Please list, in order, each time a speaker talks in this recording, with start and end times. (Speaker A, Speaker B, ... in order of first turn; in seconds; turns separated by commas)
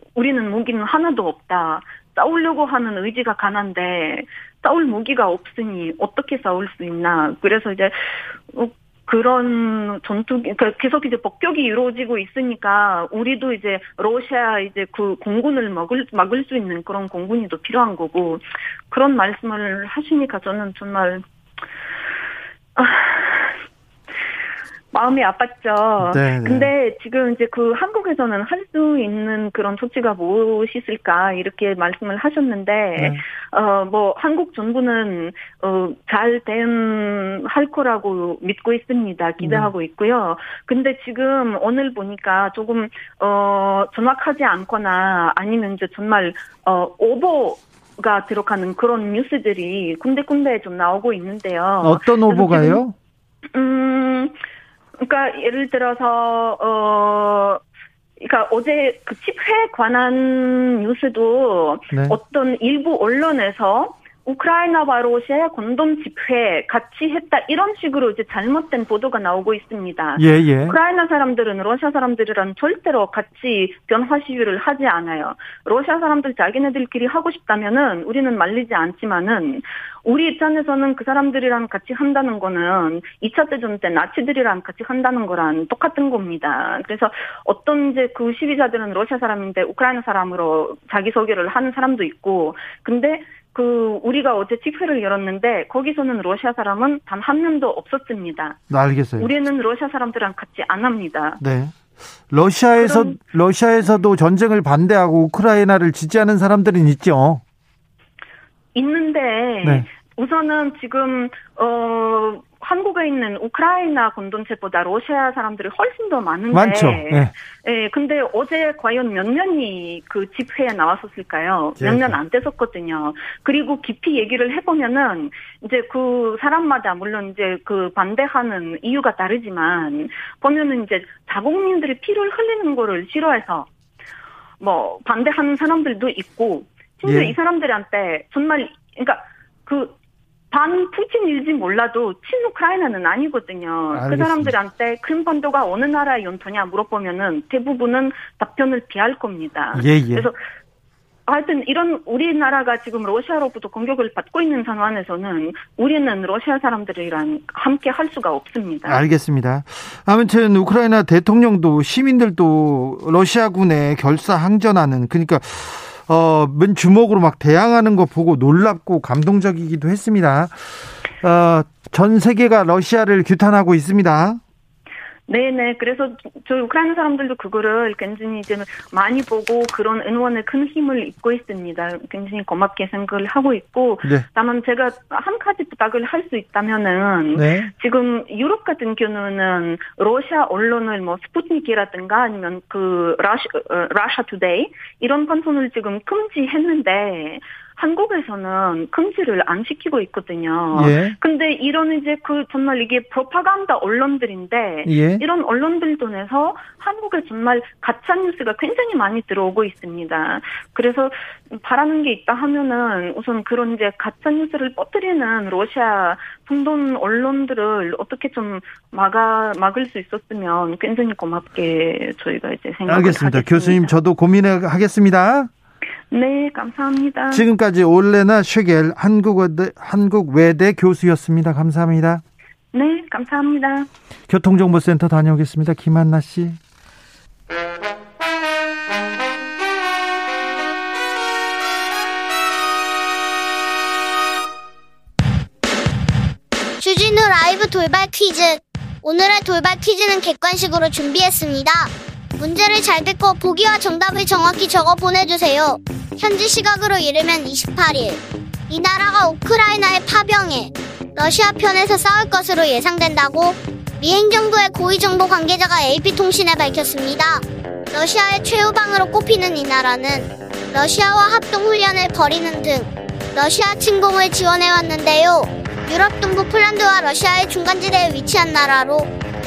Speaker A: 0.2-21.2, Speaker A: 22.8-23.6, Speaker A: 24.9-52.8, Speaker B: 26.0-26.7, Speaker B: 33.0-33.2, Speaker B: 39.4-39.7, Speaker B: 51.8-52.9, Speaker A: 53.5-54.4, Speaker A: 55.0-57.6, Speaker A: 58.2-98.6, Speaker B: 61.9-62.2, Speaker B: 70.2-70.8, Speaker B: 98.7-99.3, Speaker A: 99.2-101.4, Speaker B: 101.4-101.8, Speaker B: 102.3-107.4, Speaker A: 102.8-103.2, Speaker A: 108.8-133.7, Speaker B: 116.5-117.3, Speaker B: 121.8-122.2, Speaker A: 134.6-140.0, Speaker B: 137.1-137.3, Speaker A: 140.5-150.4, Speaker B: 143.9-144.6, Speaker B: 149.7-150.3, Speaker A: 151.3-159.0, Speaker B: 158.8-174.4, Speaker A: 175.3-223.9, Speaker B: 187.4-187.7, Speaker B: 200.8-201.2, Speaker B: 204.9-205.2, Speaker B: 222.9-225.5, Speaker A: 226.1-227.4, Speaker B: 227.3-232.2, Speaker A: 232.7-233.9, Speaker B: 234.3-236.6, Speaker C: 246.8-279.1